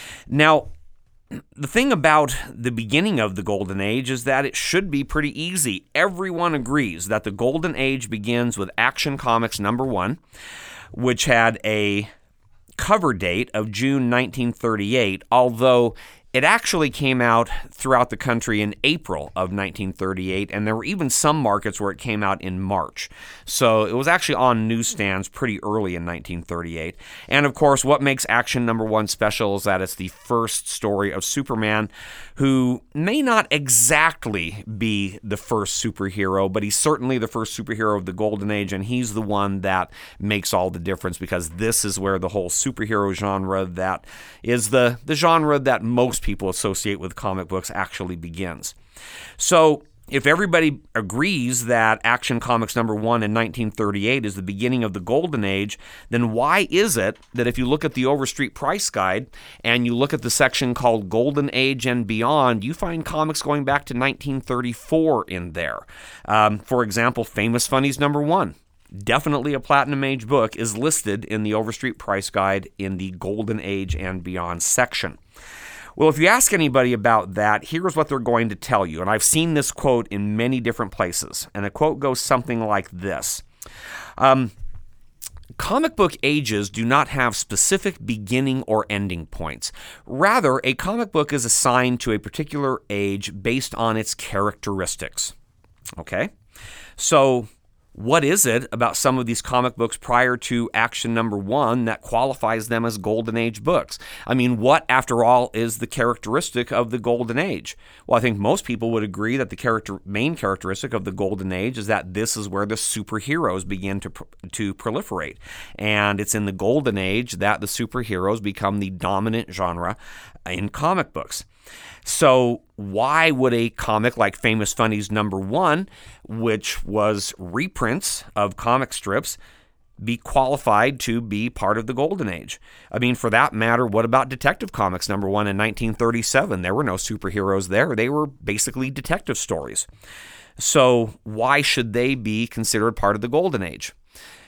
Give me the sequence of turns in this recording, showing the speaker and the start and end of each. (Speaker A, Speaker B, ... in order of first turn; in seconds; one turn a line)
Speaker A: 0.3-0.7
Speaker A: 1.6-10.2
Speaker A: 10.9-12.1
Speaker A: 12.8-48.7
Speaker A: 49.4-75.2
Speaker A: 76.0-83.4
Speaker A: 84.2-84.5
Speaker A: 85.6-95.3
Speaker A: 96.0-96.3
Speaker A: 97.0-121.4
Speaker A: 122.0-129.4
Speaker A: 130.0-139.9
Speaker A: 140.6-143.9